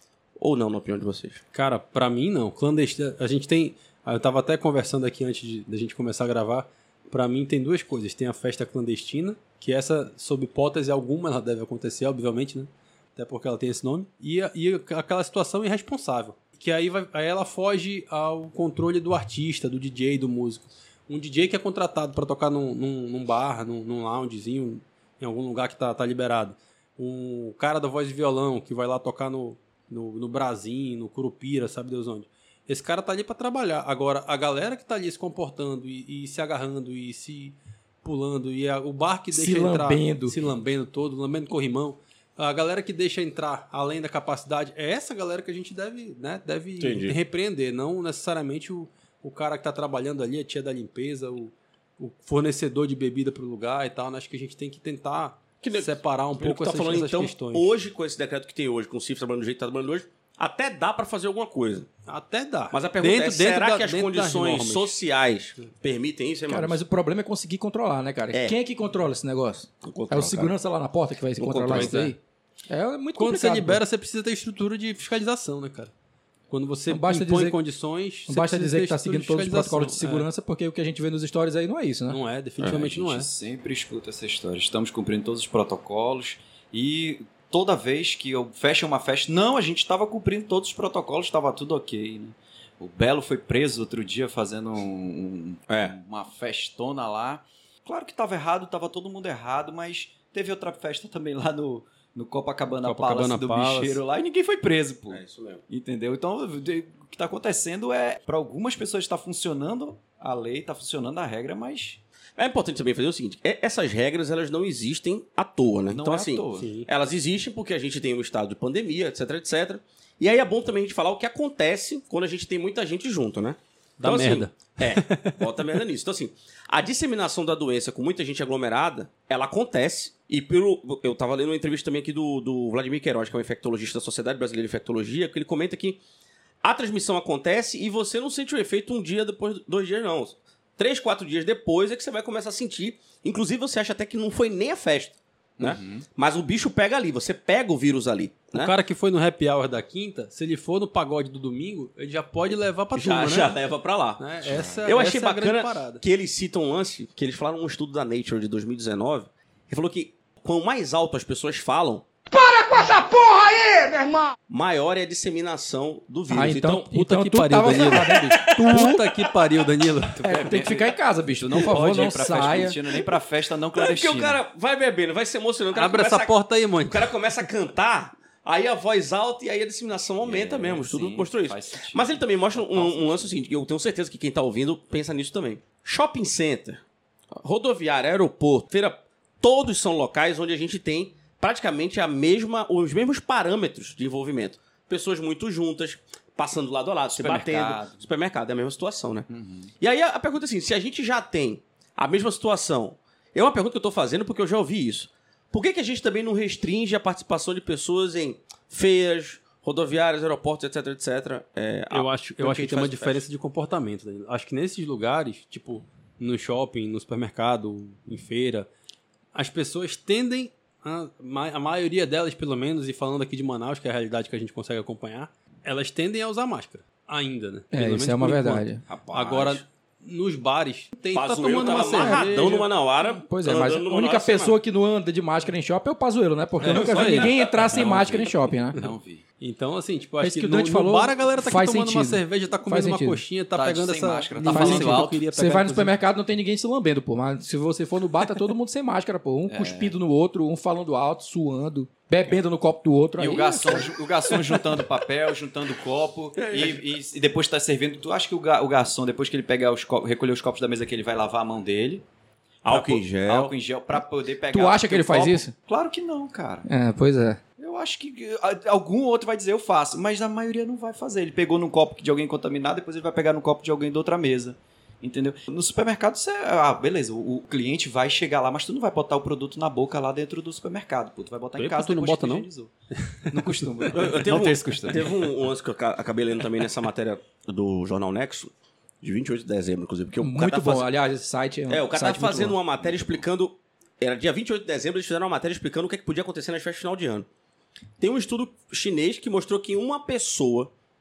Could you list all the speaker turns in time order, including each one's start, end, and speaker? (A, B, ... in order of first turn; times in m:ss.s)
0:00.4-0:01.4 A
0:01.5-0:57.7 B
0:39.3-0:40.4 C
0:46.8-0:47.2 A
0:55.6-1:01.9 A
1:02.0-1:05.0 B
1:02.7-1:06.8 A
1:06.5-1:12.2 C
1:09.8-1:10.5 A
1:11.4-1:12.0 A
1:11.7-1:12.1 B
1:12.7-1:13.8 C
1:13.2-1:15.9 B
1:16.5-1:20.3 B
1:16.9-1:17.6 C
1:18.3-1:22.2 C
1:22.1-1:23.3 B
1:22.6-1:52.0 D
1:35.7-1:35.9 A
1:42.8-1:44.0 B
1:45.1-1:45.6 A
1:52.4-2:16.0 A
1:55.9-1:56.8 D
1:56.6-1:56.9 B
2:04.0-2:05.8 B
2:16.6-2:28.7 A
2:25.6-2:26.0 D
2:28.5-2:33.6 B
2:32.9-2:34.2 A
2:34.2-2:36.0 B
2:34.4-2:34.9 D
2:34.8-2:42.0 A
2:43.0-2:43.3 C
2:44.5-2:46.9 A
2:46.3-2:49.0 C
2:46.9-2:50.5 B
2:47.7-2:48.0 A
2:50.2-2:54.4 D
2:50.2-2:52.8 C
2:53.8-3:06.8 A
2:55.7-2:57.3 B
3:00.2-3:03.4 D
3:07.4-3:19.3 A
3:17.1-3:18.0 D
3:19.3-3:19.7 D
3:19.8-3:33.2 A
3:31.9-3:38.7 B
3:39.3-3:52.7 B
3:47.7-3:48.8 C
3:48.9-3:49.6 A
3:51.1-3:54.6 A
3:51.8-3:52.2 C
3:53.0-3:58.8 C
3:56.6-3:57.3 B
3:56.7-3:57.5 A
3:57.6-3:59.2 D
3:58.7-4:05.9 B
4:00.2-4:03.2 C
4:03.5-4:05.2 D
4:04.5-4:13.9 C
4:09.5-4:10.0 D
4:13.2-4:22.0 D
4:16.4-4:16.8 A
4:22.6-4:23.5 A
4:22.6-4:26.7 D
4:24.5-4:25.5 C
4:26.7-4:27.4 C
4:27.6-4:42.7 D
4:41.6-4:42.5 B
4:43.3-4:45.3 D
4:43.4-4:43.8 C
4:43.9-4:50.9 A
4:50.2-4:52.6 C
4:51.7-4:57.3 A
4:58.0-5:00.7 A